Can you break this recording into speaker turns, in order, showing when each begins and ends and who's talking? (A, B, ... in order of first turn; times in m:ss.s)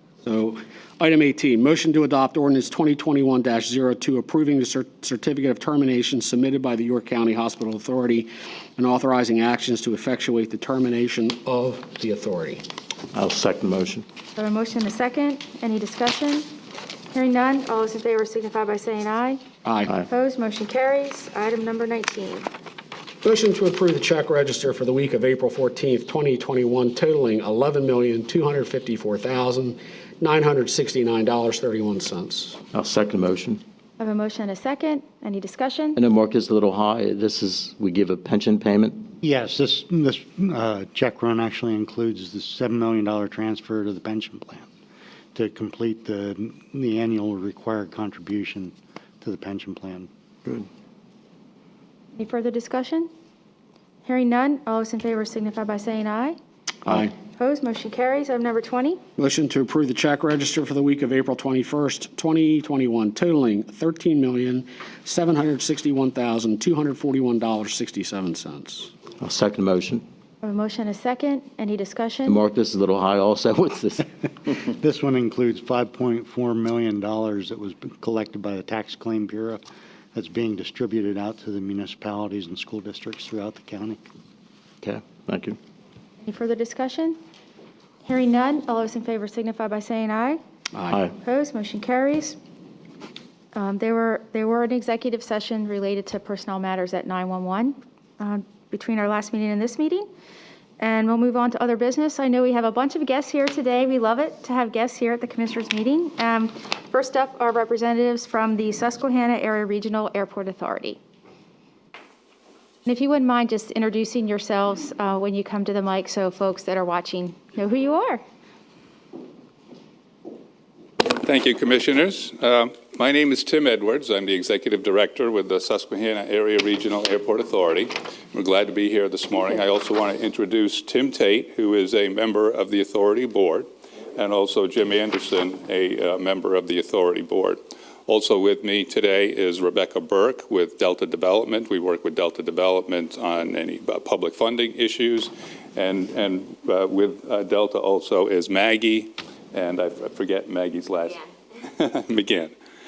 0:00.2-0:12.6 A
0:13.1-0:14.1 B
0:14.4-0:16.5 C
0:17.1-0:19.4 C
0:19.6-0:20.0 A
0:20.1-0:22.5 C
0:23.2-0:32.6 A
0:32.7-0:33.6 B
0:34.0-0:36.0 C
0:36.0-0:39.1 B
0:39.2-0:44.7 D
0:45.3-0:50.1 D
0:52.2-0:53.1 C
0:54.0-0:56.4 C
0:56.9-0:57.1 A
0:57.3-0:59.0 C
0:59.2-1:08.9 A
1:09.2-1:10.0 B
1:10.4-1:12.4 C
1:12.3-1:14.1 B
1:14.7-1:19.6 D
1:20.1-1:24.0 D
1:24.8-1:25.6 B
1:26.2-1:27.2 C
1:28.0-1:30.4 C
1:30.7-1:31.0 A
1:31.2-1:32.4 C
1:33.6-1:40.1 C
1:40.8-1:51.0 C
1:52.9-1:58.2 C
2:01.0-2:32.5 E